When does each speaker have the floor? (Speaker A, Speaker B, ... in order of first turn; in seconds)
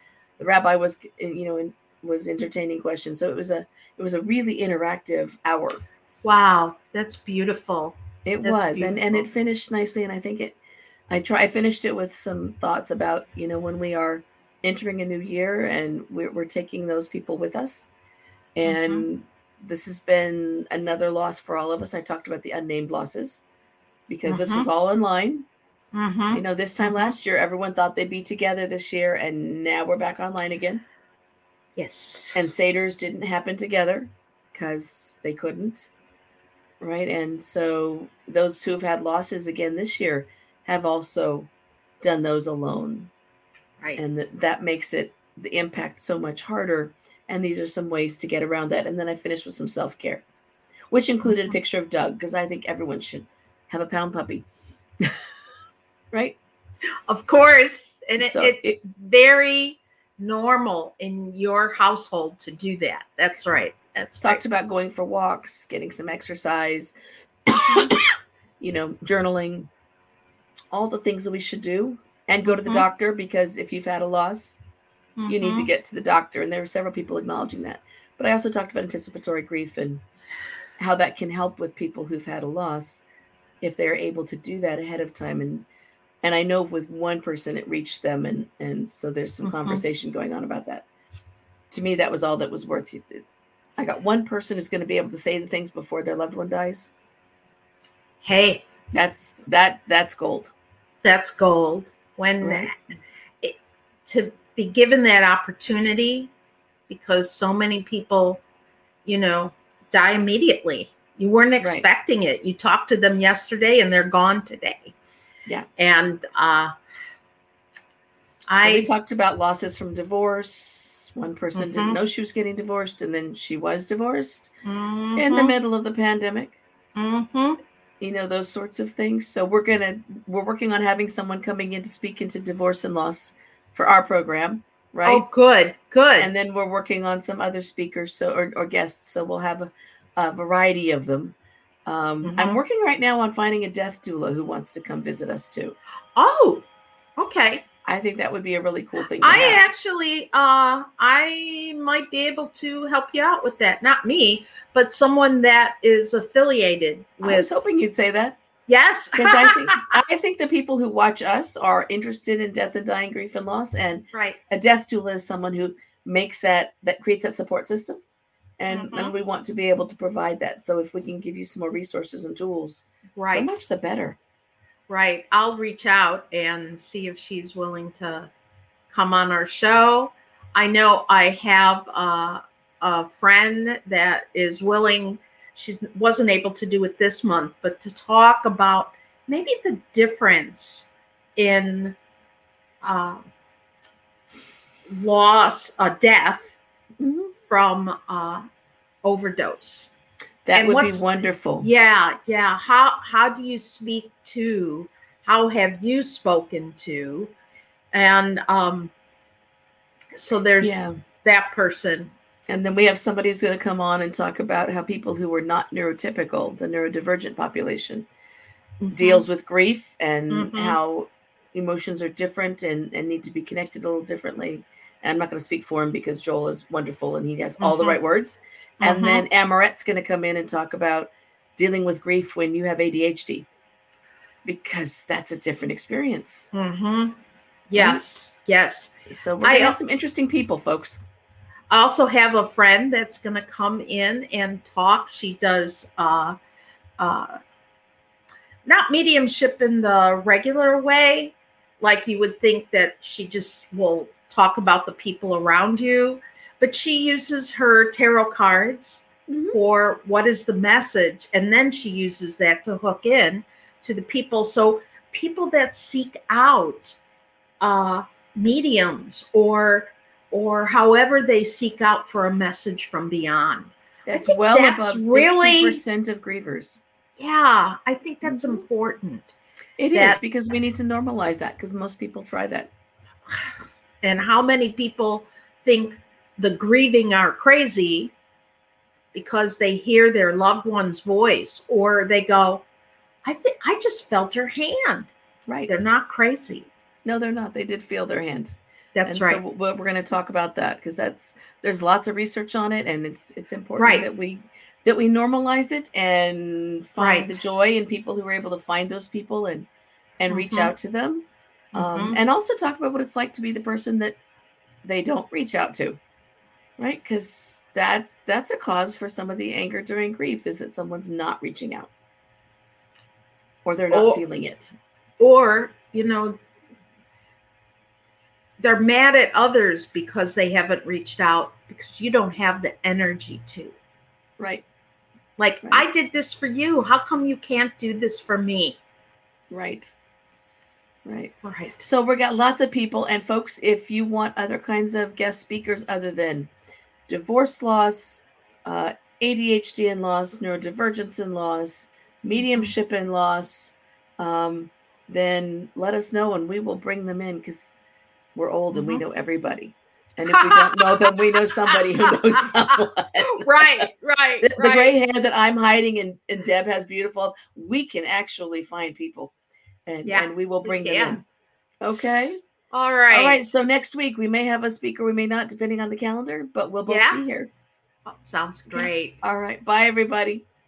Speaker A: 0.4-5.8, 8.2-10.6, 11.1-17.9, 18.5-23.4, 24.1-25.4, 26.3-30.8, 32.3-35.9, 36.8-41.5, 42.0-43.1, 44.0-50.2, 50.9-54.5, 56.1-56.4, 58.2-58.8, 64.2-66.9, 67.5-69.7, 70.7-74.6, 75.3-80.0, 80.8-83.0, 83.6-85.7, 86.2-90.8, 91.7-93.2, 93.8-96.9, 98.9-100.5, 102.4-102.7, 118.6-124.5, 125.2-126.6, 128.0-135.2, 136.2-145.8, 147.8-149.6, 157.2-158.4, 159.2-168.0, 168.6-174.2, 197.0-197.3, 200.4-201.7, 210.6-210.9, 212.5-218.1, 218.9-233.5, 234.4-236.5, 237.8-238.0, 239.1-241.0, 259.3-259.6, 274.1-276.8, 278.2-278.6, 279.8-282.7, 297.0-309.7, 310.2-314.2, 314.8-316.0, 316.8-321.9, 323.6-324.7, 334.4-334.6, 339.5-339.9, 341.1-346.5, 347.1-357.8, 358.3-363.9, 364.4-369.3, 369.9-371.2, 371.8-372.4, 373.1-377.5, 378.7-380.4
Speaker B: 6.2-9.2, 18.6-19.0, 24.3-24.7, 25.9-27.1, 31.8-32.4, 57.1-64.4, 67.7-67.9, 72.5-72.8, 75.2-75.7, 89.4-89.8, 98.2-98.6, 101.0-106.3, 106.9-108.4, 109.0-114.9, 115.8-116.7, 118.5-118.9, 121.5-122.0, 124.6-125.5, 126.9-127.6, 135.0-136.3, 142.2-142.6, 146.2-146.7, 147.2-147.6, 149.2-157.5, 158.7-159.8, 164.1-164.4, 168.7-169.1, 173.2-173.6, 174.9-178.3, 178.9-192.0, 192.8-193.3, 194.9-196.6, 197.4-198.4, 199.0-199.9, 200.5-201.1, 201.6-207.3, 207.9-208.9, 210.1-212.1, 218.8-219.2, 220.3-220.8, 227.6-228.0, 228.8-229.2, 236.5-237.2, 237.7-239.8, 241.7-246.3, 247.0-247.4, 248.6-267.0, 267.6-275.8, 277.2-279.3, 279.9-280.2, 284.0-288.1, 289.1-292.6, 293.2-295.1, 295.7-296.7, 298.9-299.4, 303.8-304.1, 307.0-307.4, 310.3-310.7, 311.7-312.2, 323.9-324.2, 325.2-326.4, 328.6-333.7, 335.4-338.8, 341.4-341.8, 352.4-352.7, 358.7-359.0, 360.3-362.5, 363.2-364.9, 370.0-371.2, 372.7-373.4, 376.9-377.2, 378.1-379.2